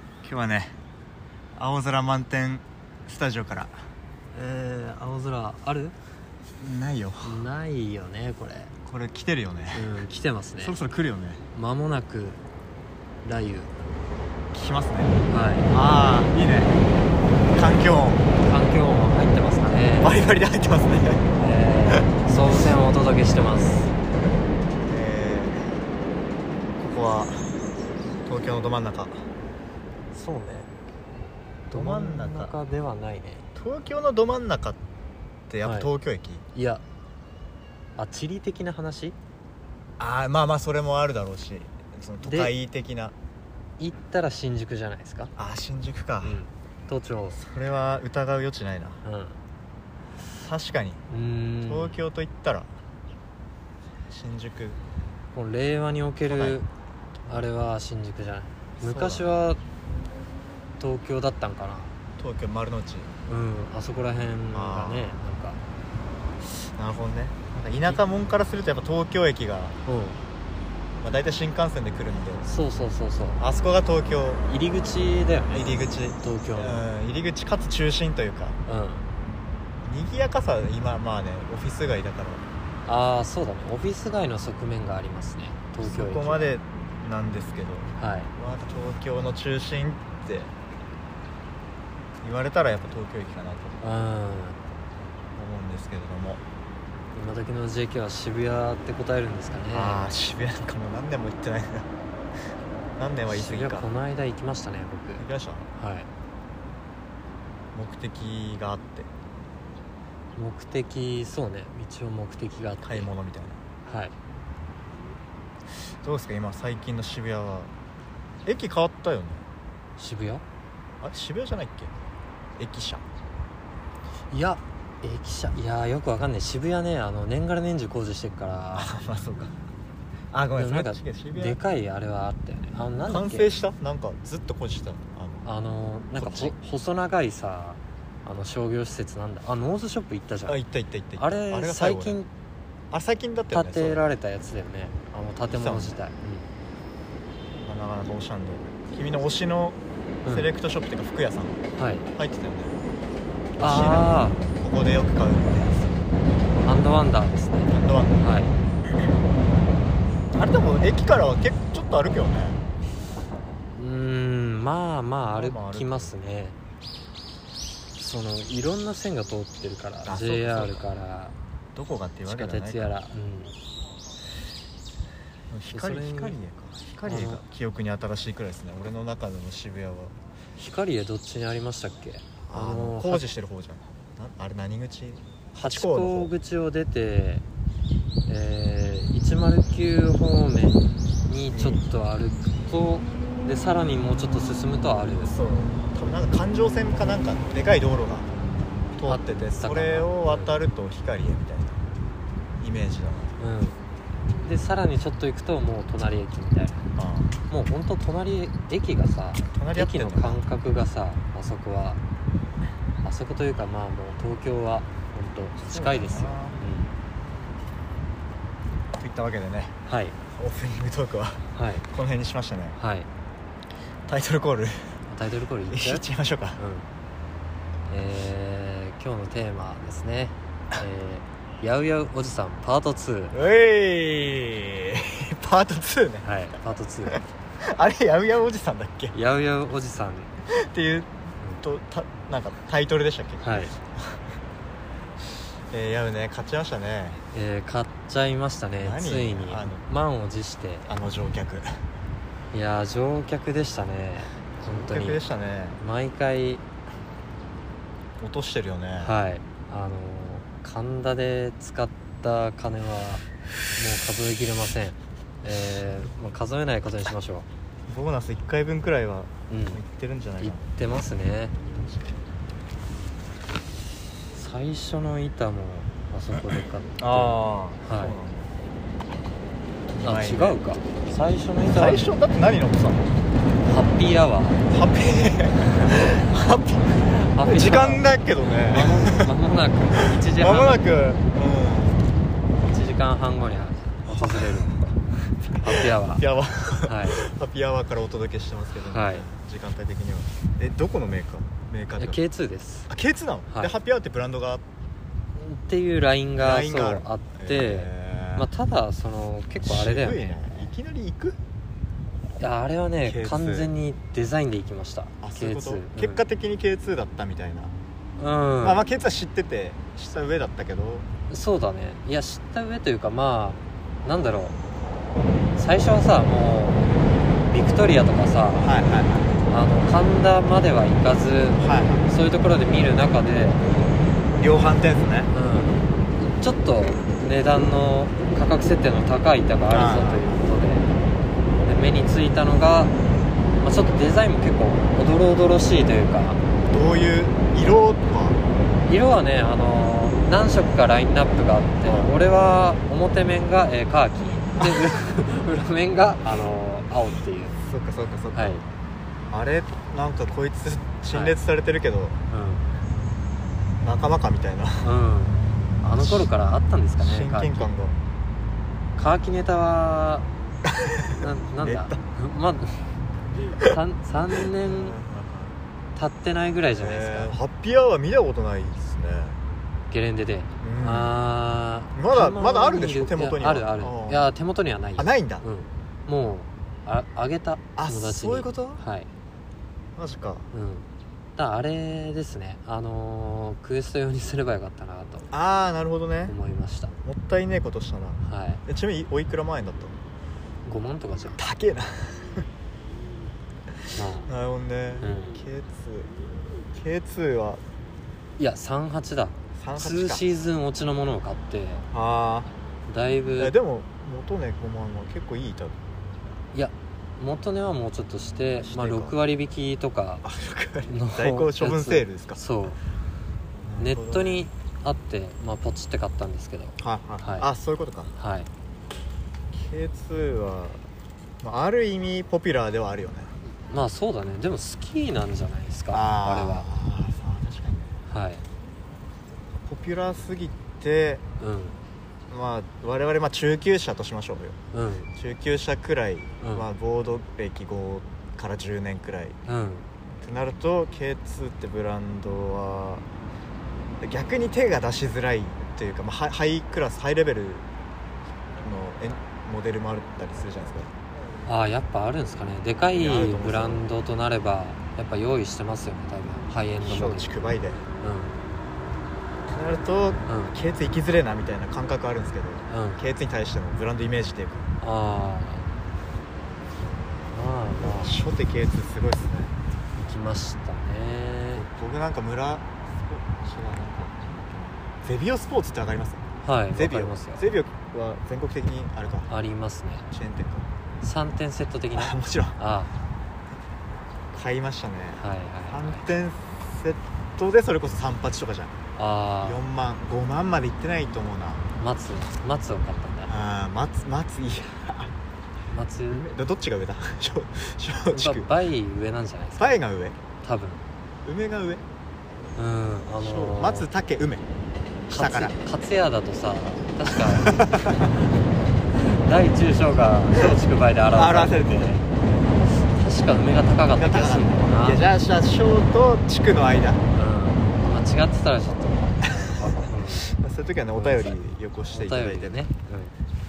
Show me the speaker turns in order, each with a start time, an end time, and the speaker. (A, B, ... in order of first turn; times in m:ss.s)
0:00.2-0:00.7 A
0:01.5-0:03.9 A
0:04.3-0:05.9 B
0:06.6-0:07.4 A
0:07.2-0:08.7 B
0:08.8-0:09.9 A
0:09.7-0:10.8 B
0:10.6-0:11.4 A
0:11.5-0:12.4 B
0:13.2-0:13.8 B
0:14.5-0:16.8 A
0:15.3-0:15.7 B
0:17.5-0:18.3 A
0:18.4-0:20.2 B
0:20.0-0:21.3 A
0:21.4-0:23.9 B
0:24.9-0:25.8 A
0:26.7-0:27.6 A
0:28.2-0:29.2 A
0:30.1-0:30.7 B
0:31.7-0:33.5 B
0:31.7-0:32.5 A
0:33.5-0:34.8 A
0:35.5-0:36.4 A
0:35.6-0:35.9 B
0:36.5-0:36.8 B
0:38.0-0:39.2 B
0:40.0-0:43.1 A
0:42.2-0:42.5 B
0:43.8-0:45.3 B
0:45.4-0:46.4 A
0:46.2-0:47.4 B
0:47.3-0:49.0 A
0:49.0-0:49.4 B
0:50.3-0:51.0 A
0:51.1-0:52.0 B
0:51.6-0:52.7 A
0:54.1-0:54.8 A
0:55.3-0:56.7 B
0:56.3-0:56.6 A
0:57.2-0:59.6 B
0:58.8-0:59.3 A
1:00.8-1:01.9 B
1:02.2-1:03.1 A
1:03.3-1:05.6 B
1:04.5-1:05.2 A
1:06.5-1:09.8 A
1:09.8-1:10.2 B
1:11.0-1:12.5 A
1:12.4-1:13.4 B
1:13.4-1:14.4 A
1:14.5-1:16.9 B
1:15.5-1:18.6 A
1:18.7-1:19.0 B
1:19.8-1:22.4 A
1:22.8-1:26.5 B
1:25.8-1:30.5 A
1:28.0-1:28.3 B
1:32.2-1:34.1 A
1:33.8-1:34.6 B
1:35.3-1:36.4 A
1:37.1-1:40.0 B
1:39.7-1:41.9 A
1:43.0-1:43.9 A
1:43.3-1:46.1 B
1:45.2-1:45.7 A
1:47.7-1:49.1 A
1:50.4-1:53.1 B
1:52.8-1:53.6 A
1:53.8-1:54.1 B
1:56.0-1:57.7 A
1:58.4-1:59.4 A
2:00.0-2:00.4 B
2:01.0-2:01.9 A
2:02.6-2:03.0 A
2:04.3-2:08.9 B
2:08.7-2:09.6 A
2:10.3-2:11.6 A
2:10.6-2:13.5 B
2:13.0-2:15.5 A
2:15.4-2:20.6 B
2:16.2-2:16.6 A
2:20.5-2:22.2 A
2:21.2-2:22.3 B
2:22.9-2:24.0 A
2:23.5-2:26.5 B
2:25.5-2:26.0 A
2:27.6-2:29.8 A
2:30.2-2:30.5 B
2:30.3-2:31.6 A
2:31.8-2:32.1 B
2:32.1-2:32.8 A
2:33.6-2:36.0 A
2:33.6-2:34.4 B
2:36.6-2:38.6 B
2:37.7-2:38.2 A
2:40.3-2:42.6 A
2:43.7-2:46.6 B
2:45.4-2:46.1 A
2:48.0-2:51.4 B
2:50.0-2:50.9 A
2:51.7-2:52.9 A
2:52.3-2:53.5 B
2:55.5-3:00.1 A
2:55.7-2:56.4 B
2:57.0-2:57.4 B
3:00.6-3:03.2 B
3:02.4-3:06.3 A
3:05.6-3:07.4 B
3:08.3-3:15.4 B
3:11.5-3:11.8 A
3:15.3-3:18.3 A
3:19.0-3:21.8 A
3:19.1-3:20.6 B
3:22.6-3:23.4 A
3:23.4-3:23.8 B
3:24.4-3:26.9 B
3:27.0-3:27.3 A
3:27.5-3:32.0 B
3:29.4-3:30.4 A
3:33.0-3:36.9 B
3:35.6-3:36.6 A
3:39.0-3:39.8 A
3:39.9-3:40.2 B
3:40.3-3:42.8 A
3:41.5-3:41.8 B
3:42.8-3:43.1 B
3:44.0-3:44.9 A
3:45.1-3:46.0 B
3:45.7-3:46.6 A
3:46.6-3:46.9 B
3:47.9-3:53.4 B
3:53.3-3:56.3 A
3:56.2-3:57.2 B
3:57.1-3:59.1 A
3:59.1-4:00.3 B
4:00.4-4:04.3 A
4:03.4-4:03.7 B
4:05.7-4:07.2 A
4:07.3-4:10.9 B
4:08.8-4:09.8 A
4:10.9-4:11.8 A
4:12.5-4:15.2 B
4:14.6-4:15.8 A
4:15.8-4:16.6 B
4:18.2-4:19.1 A
4:19.0-4:23.2 B
4:23.8-4:27.4 B
4:27.9-4:30.7 A
4:29.5-4:29.8 B
4:30.4-4:31.6 B
4:34.3-4:38.2 B
4:37.0-4:38.5 A
4:39.9-4:40.6 A
4:40.0-4:42.1 B
4:41.7-4:43.0 A
4:43.6-4:44.6 B
4:44.7-4:49.3 A
4:47.3-4:50.8 B
4:50.0-4:52.1 A
4:52.7-4:54.9 B
4:54.1-4:54.9 A
4:55.5-5:02.2 A
4:55.6-4:56.2 B
4:56.8-4:57.2 B
4:58.8-4:59.3 B
5:02.0-5:02.9 B
5:02.9-5:04.6 A
5:03.5-5:03.7 B
5:05.3-5:10.4 B
5:06.4-5:08.5 A
5:09.6-5:11.4 A
5:12.4-5:16.2 B
5:13.0-5:13.7 A
5:15.2-5:17.7 A
5:18.2-5:18.8 B
5:18.6-5:21.1 A
5:21.3-5:24.6 B
5:25.6-5:26.8 B
5:27.5-5:28.7 B
5:28.6-5:29.4 A
5:29.5-5:33.7 B
5:31.6-5:32.0 A
5:34.3-5:35.3 A
5:35.3-5:41.0 B
5:39.7-5:40.5 A
5:41.6-5:42.9 B
5:43.6-5:46.4 B
5:46.7-5:48.4 A
5:48.8-5:57.6 B
5:51.8-5:52.1 A
5:54.6-5:54.9 A
5:57.5-5:58.6 A
5:58.3-5:58.6 B
5:59.3-6:02.2 A
6:01.1-6:01.4 B
6:02.3-6:02.6 B
6:03.8-6:04.9 A
6:04.8-6:07.7 B
6:05.8-6:06.3 A
6:07.0-6:08.0 A
6:09.0-6:10.3 B
6:10.7-6:12.0 A
6:11.2-6:12.9 B
6:13.6-6:15.0 B
6:14.6-6:15.6 A
6:15.9-6:17.3 B
6:16.7-6:19.4 A
6:19.9-6:29.1 B
6:20.6-6:21.2 A
6:21.9-6:24.3 A
6:25.0-6:25.4 A
6:27.8-6:28.8 A
6:30.0-6:30.5 A
6:30.5-6:35.3 B
6:35.3-6:36.4 A
6:36.3-6:36.9 B
6:37.0-6:40.0 A
6:38.2-6:38.6 B
6:40.6-6:41.4 B
6:41.4-6:42.5 A
6:44.0-6:44.3 B
6:44.2-6:46.1 A
6:45.0-6:45.4 B
6:46.7-6:47.6 A
6:48.4-6:51.8 B
6:49.5-6:50.3 A
6:51.9-6:52.5 A
6:52.9-6:53.5 B
6:53.4-6:55.8 A
6:56.5-7:00.2 B
6:58.6-6:59.2 A
7:00.2-7:02.4 A
7:00.9-7:02.8 B
7:03.6-7:04.5 A
7:03.8-7:07.5 B
7:06.8-7:08.1 A
7:08.2-7:08.5 B
7:09.5-7:10.8 A
7:11.4-7:13.3 A
7:13.7-7:16.7 B
7:15.9-7:18.0 A
7:18.1-7:18.4 B
7:19.6-7:21.2 A
7:21.4-7:21.8 B
7:22.3-7:24.6 A
7:24.7-7:25.1 B
7:25.1-7:29.4 A
7:26.4-7:26.7 B
7:29.5-7:29.9 B
7:30.2-7:33.0 A
7:34.0-7:37.7 A
7:38.6-7:40.9 A
7:41.4-7:47.3 B
7:43.0-7:43.8 A
7:46.8-7:47.8 A
7:48.0-7:48.3 B
7:49.5-7:54.7 A
7:50.3-7:50.6 B
7:52.7-7:53.0 B
7:54.8-7:55.7 B
7:57.3-7:58.2 B
7:57.8-7:59.5 A
8:00.0-8:01.6 B
8:01.5-8:09.3 A
8:06.4-8:07.4 B
8:09.3-8:10.1 B
8:10.1-8:10.7 A
8:11.0-8:12.9 B
8:11.9-8:12.6 A
8:14.3-8:18.7 A
8:15.2-8:16.0 B
8:19.0-8:19.6 B
8:19.4-8:21.6 A
8:21.8-8:23.3 B
8:23.3-8:25.1 A
8:25.7-8:26.3 B
8:26.1-8:28.5 A
8:28.1-8:29.8 B
8:29.6-8:30.2 A
8:30.4-8:30.8 B
8:31.2-8:31.8 A
8:32.6-8:33.9 B
8:33.2-8:34.4 A
8:35.1-8:35.6 A
8:35.1-8:37.7 B
8:37.1-8:38.1 A
8:39.0-8:42.0 B
8:41.1-8:42.0 A
8:42.8-8:45.0 B
8:44.0-8:47.0 A
8:47.1-8:50.3 B
8:49.4-8:52.6 A
8:50.9-8:51.4 B
8:51.9-8:53.1 B